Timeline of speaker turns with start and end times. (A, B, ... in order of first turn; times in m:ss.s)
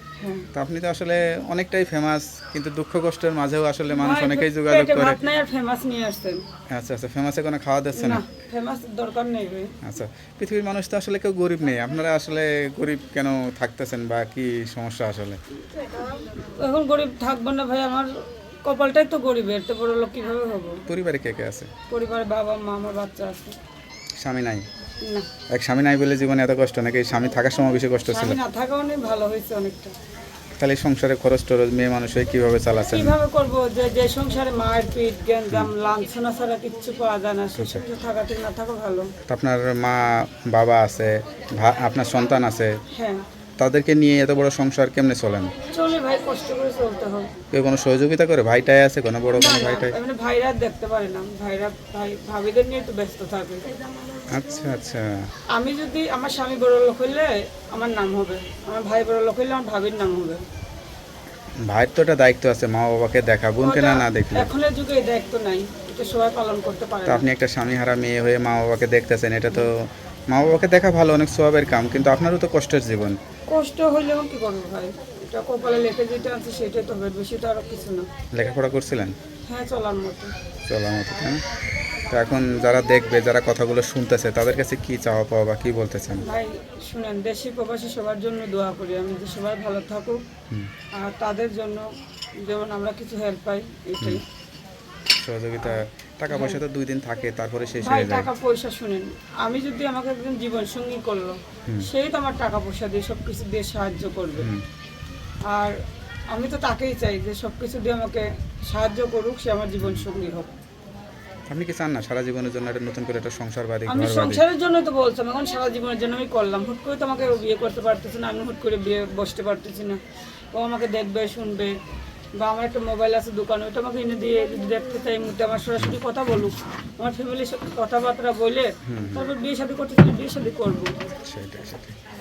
0:00.2-0:00.5 A
0:00.5-0:05.2 B
0:03.9-0:06.4 A
0:06.7-0:08.2 B
0:08.0-0:09.8 A
0:09.8-0:15.4 B
0:15.6-0:20.8 A
0:20.9-0:21.7 B
0:21.9-0:23.6 A
0:24.2-0:24.6 B
0:25.0-0:25.3 A
0:25.5-0:28.4 B
0:28.1-0:29.9 A
0:30.6-0:33.1 B
0:32.9-0:39.1 A
0:37.6-0:37.8 B
0:39.3-0:42.8 B
0:42.9-0:43.2 A
0:43.6-0:45.5 B
0:45.7-0:47.4 A
0:47.5-0:50.0 B
0:49.3-0:54.2 A
0:54.3-0:55.3 B
0:55.5-1:00.4 A
1:01.6-1:04.5 B
1:03.6-1:07.2 A
1:07.1-1:13.2 B
1:13.5-1:18.1 A
1:18.3-1:19.1 B
1:19.5-1:20.3 A
1:20.7-1:21.4 B
1:22.1-1:26.2 B
1:26.2-1:30.2 A
1:30.9-1:31.8 A
1:32.4-1:34.2 A
1:35.2-1:38.3 B
1:36.3-1:36.6 A
1:37.8-1:44.5 A
1:44.4-1:44.6 B
1:45.5-1:45.8 A
1:46.3-1:50.5 A
1:51.5-1:54.4 B
1:53.9-2:00.0 A
2:00.5-2:01.7 A
2:02.4-2:10.9 A
2:08.8-2:09.3 B
2:11.2-2:12.0 B